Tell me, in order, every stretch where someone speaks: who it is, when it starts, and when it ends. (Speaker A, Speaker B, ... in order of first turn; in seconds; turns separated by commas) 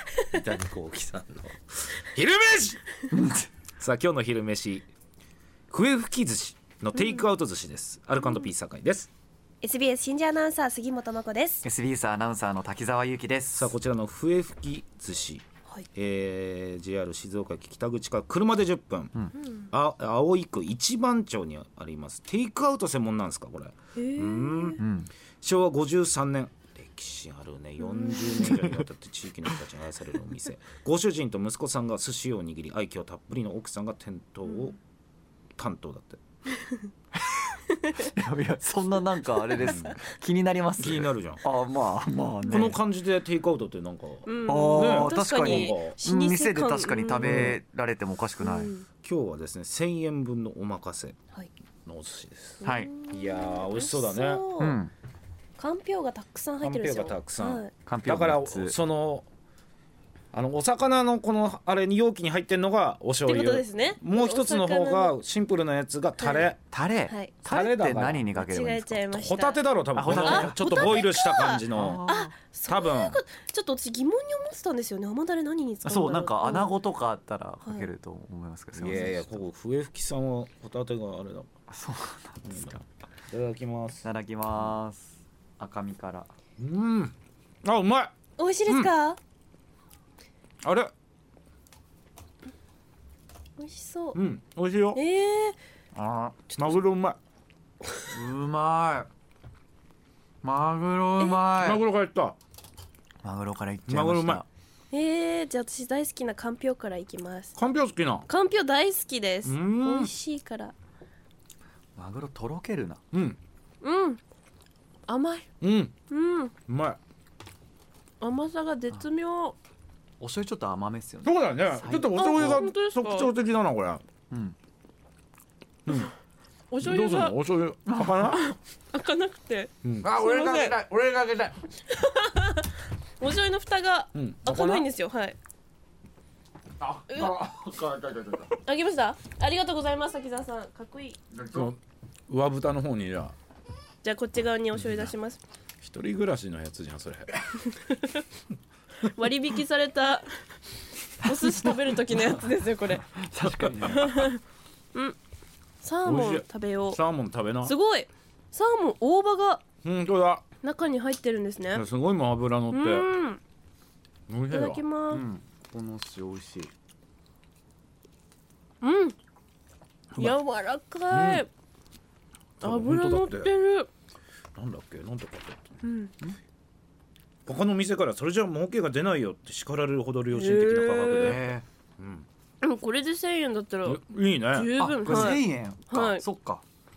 Speaker A: 0.3-2.8, Speaker B: 3.1-3.5, Speaker A: 3.8-4.9, Speaker A: 5.7-9.1, Speaker C: 6.9-7.2, Speaker C: 8.2-8.5, Speaker C: 9.6-11.7, Speaker B: 11.6-13.8, Speaker A: 13.5-15.4, Speaker A: 16.0-19.1, Speaker A: 19.7-24.8, Speaker C: 24.0-24.8, Speaker B: 24.8-25.1, Speaker A: 25.4-34.8, Speaker C: 27.8-28.3, Speaker B: 28.2-28.9, Speaker A: 35.6-36.2, Speaker B: 38.0-42.8, Speaker A: 39.6-40.0, Speaker A: 40.8-41.4, Speaker A: 42.5-46.0, Speaker C: 44.3-47.5, Speaker B: 44.5-48.7, Speaker A: 47.2-47.6, Speaker C: 48.4-48.9, Speaker A: 49.0-51.2, Speaker A: 51.9-54.4, Speaker C: 52.6-54.8, Speaker B: 52.6-52.9, Speaker B: 54.6-54.9, Speaker C: 55.6-57.7, Speaker A: 56.6-59.3, Speaker B: 57.9-58.8, Speaker A: 60.3-66.6, Speaker C: 63.2-65.2, Speaker C: 66.2-66.5, Speaker B: 66.7-69.1, Speaker C: 67.1-67.4, Speaker A: 67.5-68.3, Speaker C: 68.3-76.8, Speaker A: 69.1-72.0, Speaker B: 70.0-71.1, Speaker B: 71.7-72.3, Speaker A: 72.7-73.2, Speaker B: 75.8-79.4, Speaker A: 78.7-81.5, Speaker B: 81.7-82.8, Speaker A: 82.5-84.0, Speaker B: 84.0-86.3, Speaker A: 86.6-88.1, Speaker C: 88.4-89.2, Speaker A: 88.7-88.9, Speaker A: 90.6-90.9, Speaker C: 93.6-94.2, Speaker A: 94.2-95.0, Speaker C: 95.0-95.6, Speaker B: 96.0-96.6, Speaker A: 96.6-97.2, Speaker B: 98.1-99.1, Speaker B: 100.4-101.8, Speaker A: 101.6-102.4, Speaker B: 103.2-104.5, Speaker A: 103.9-104.4, Speaker C: 104.9-107.5, Speaker A: 107.6-108.3, Speaker C: 108.3-110.7, Speaker A: 109.5-110.1, Speaker B: 112.0-113.0, Speaker A: 113.1-113.4, Speaker C: 113.8-114.2, Speaker C: 115.1-115.5, Speaker A: 115.6-115.9, Speaker C: 116.1-116.5, Speaker A: 116.7-117.0, Speaker C: 118.2-119.6, Speaker B: 120.2-122.6, Speaker A: 121.2-124.0, Speaker C: 122.1-123.3, Speaker B: 124.3-124.6, Speaker C: 126.7-127.4, Speaker A: 126.8-128.4, Speaker B: 127.9-128.4, Speaker C: 128.3-130.8, Speaker A: 129.8-131.5, Speaker C: 131.9-135.4, Speaker A: 134.2-134.9, Speaker A: 136.8-138.4, Speaker C: 137.1-137.3, Speaker C: 138.7-141.2, Speaker B: 141.4-141.7, Speaker A: 141.5-141.8, Speaker A: 142.3-143.3, Speaker C: 144.0-145.4, Speaker A: 144.8-145.1, Speaker A: 145.8-147.5, Speaker C: 147.8-148.2, Speaker C: 149.0-150.3, Speaker C: 151.2-153.1, Speaker B: 151.2-152.4, Speaker B: 153.1-154.3, Speaker A: 153.4-153.9, Speaker C: 153.9-154.4, Speaker C: 155.8-157.0, Speaker A: 156.0-157.8, Speaker C: 157.6-159.6, Speaker A: 159.8-160.4, Speaker C: 160.6-161.8, Speaker A: 161.7-163.1, Speaker C: 162.7-163.4, Speaker A: 164.3-164.8, Speaker C: 164.5-165.2, Speaker B: 165.1-166.7, Speaker C: 168.8-169.2, Speaker C: 170.2-171.5, Speaker A: 171.1-171.5, Speaker A: 172.6-173.5, Speaker C: 172.6-173.9, Speaker A: 174.6-175.8, Speaker C: 175.8-176.2, Speaker A: 177.5-182.3, Speaker C: 180.3-181.4, Speaker B: 181.2-181.7, Speaker C: 182.6-186.2, Speaker A: 183.8-185.4, Speaker B: 184.8-186.7